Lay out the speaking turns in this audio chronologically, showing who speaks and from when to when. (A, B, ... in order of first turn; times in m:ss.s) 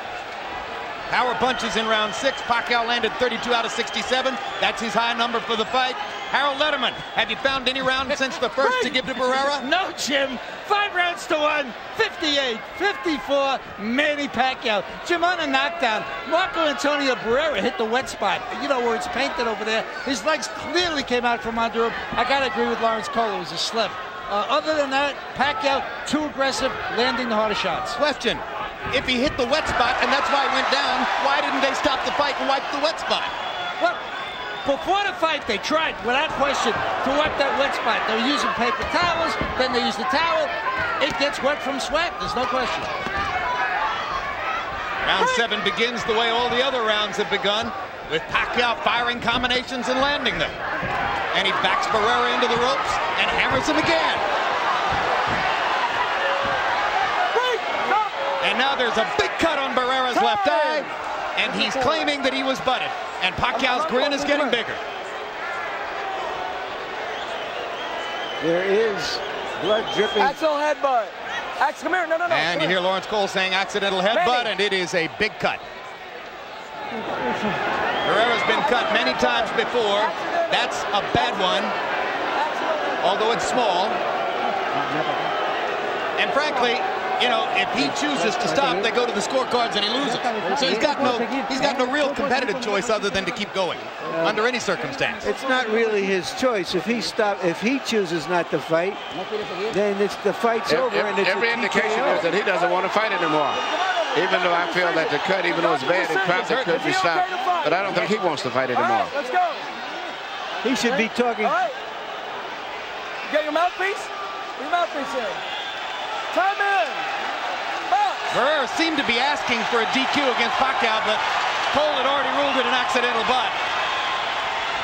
0:01.1-0:09.7 A
0:08.6-0:08.9 B
0:08.6-0:08.9 C
0:09.4-0:28.0 C
0:28.0-0:33.3 A
0:34.6-0:42.9 C
0:45.0-0:50.6 A
0:51.3-0:54.2 A
0:57.3-0:58.2 B
0:58.4-1:04.8 A
1:00.1-1:00.9 B
1:01.4-1:02.1 B
1:03.5-1:04.6 B
1:08.4-1:10.4 D
1:10.2-1:12.8 B
1:12.3-1:15.6 A
1:14.1-1:14.5 B
1:18.0-1:21.8 A
1:18.6-1:20.7 B
1:22.4-1:23.1 B
1:23.0-1:24.0 A
1:26.2-1:35.2 A
1:34.1-1:34.4 D
1:35.2-1:36.1 B
1:35.2-1:39.0 D
1:39.7-1:42.3 D
1:40.7-1:43.6 E
1:42.4-1:42.9 B
1:43.5-1:48.1 B
1:44.1-1:49.2 E
1:46.3-1:46.8 A
1:48.8-1:49.7 B
1:50.6-1:51.6 D
1:50.8-1:51.8 B
1:53.3-1:55.4 B
1:56.3-1:57.1 B
1:57.9-1:58.3 B
1:58.3-2:03.6 A